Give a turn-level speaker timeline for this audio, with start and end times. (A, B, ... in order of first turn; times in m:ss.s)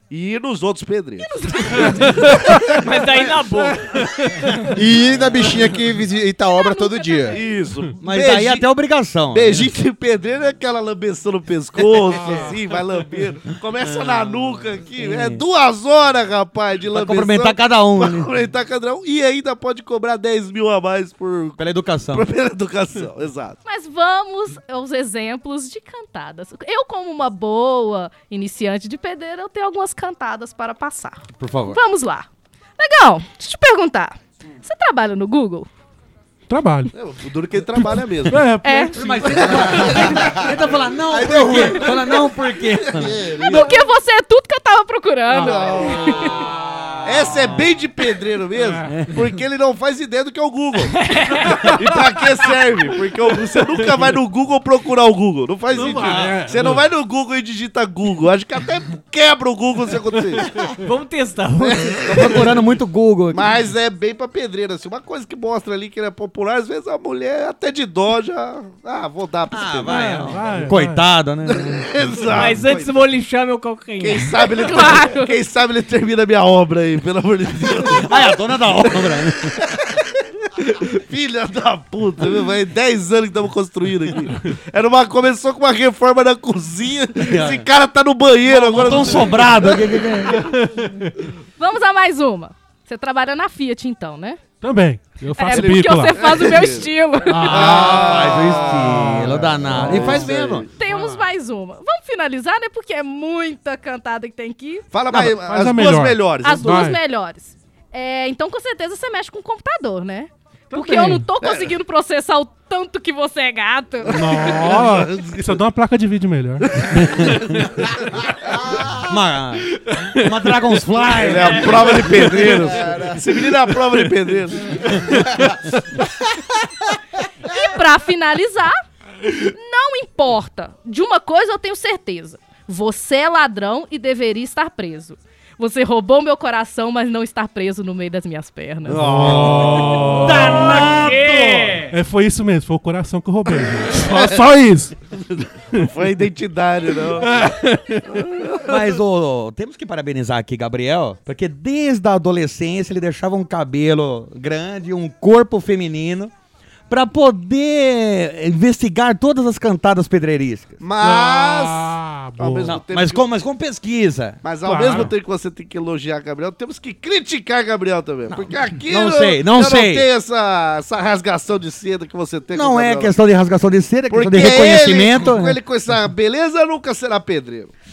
0:00.1-0:03.2 A
0:01.2-0:02.4 B
0:02.5-0:04.6 C
0:04.7-0:07.4 D
0:06.5-0:07.4 B
0:07.3-0:08.7 A
0:08.0-0:09.7 E
0:09.3-0:21.6 A
0:12.0-0:12.5 F
0:15.0-0:15.4 E
0:16.9-0:18.3 E
0:21.6-0:22.3 E
0:22.1-0:23.6 A
0:23.6-0:32.3 B
0:31.4-0:31.8 E
0:32.8-0:35.7 B
0:36.5-0:36.9 F
0:36.9-0:38.5 A
0:37.8-0:39.6 F
0:38.6-0:39.0 B
0:38.9-0:43.2 E
0:39.2-0:40.4 A
0:39.8-0:40.5 D
0:41.0-0:42.1 D
0:42.6-0:43.8 A
0:43.0-0:43.5 D
0:43.4-0:46.5 B
0:45.3-0:46.4 A
0:46.4-0:47.6 E
0:47.0-0:50.9 A
0:48.6-0:49.0 F
0:50.9-0:51.8 C
0:51.5-1:00.6 A
0:55.7-0:56.8 F
0:55.8-0:56.5 E
1:00.8-1:02.4 C
1:01.6-1:02.6 A
1:02.1-1:03.4 E
1:03.3-1:10.2 A
1:09.5-1:11.8 E
1:10.0-1:11.1 F
1:11.5-1:13.0 A
1:12.3-1:14.4 C
1:14.0-1:18.4 A
1:14.4-1:15.4 B
1:18.0-1:19.6 E
1:19.0-1:30.0 A
1:27.2-1:27.6 E
1:28.5-1:30.4 E
1:28.7-1:29.5 F
1:30.4-1:31.1 F
1:31.6-1:34.4 B
1:34.6-1:36.7 F
1:35.3-1:37.9 B
1:35.5-1:36.9 A
1:37.3-1:40.7 E
1:37.4-1:38.0 F
1:37.4-1:40.7 A
1:39.8-1:40.1 F
1:40.8-1:44.9 B
1:44.9-1:46.9 A
1:45.1-1:47.0 F
1:46.4-1:54.6 B
1:50.7-1:51.1 C
1:51.4-1:51.7 A
1:54.1-1:55.6 A
1:54.1-1:56.7 F
1:56.7-1:58.1 A
1:56.9-1:57.4 E
1:58.4-1:59.0 D
1:59.0-2:02.5 E
2:01.2-2:05.8 A
2:01.3-2:01.9 C
2:02.7-2:03.3 D
2:07.4-2:08.7 B
2:09.3-2:19.2 B
2:18.8-2:21.6 A
2:19.0-2:20.0 F
2:19.2-2:21.5 E
2:20.2-2:22.0 C
2:21.9-2:24.9 F
2:24.0-2:24.4 A
2:25.1-2:27.5 A
2:27.2-2:28.1 F
2:28.1-2:28.8 A
2:28.6-2:36.3 E
2:36.9-2:40.8 E
2:40.8-2:43.2 A
2:41.0-2:42.8 F
2:42.6-2:45.1 E
2:44.4-2:53.1 A
2:44.6-2:45.1 F
2:48.3-2:50.1 E
2:52.5-2:55.6 E
2:54.1-2:57.7 A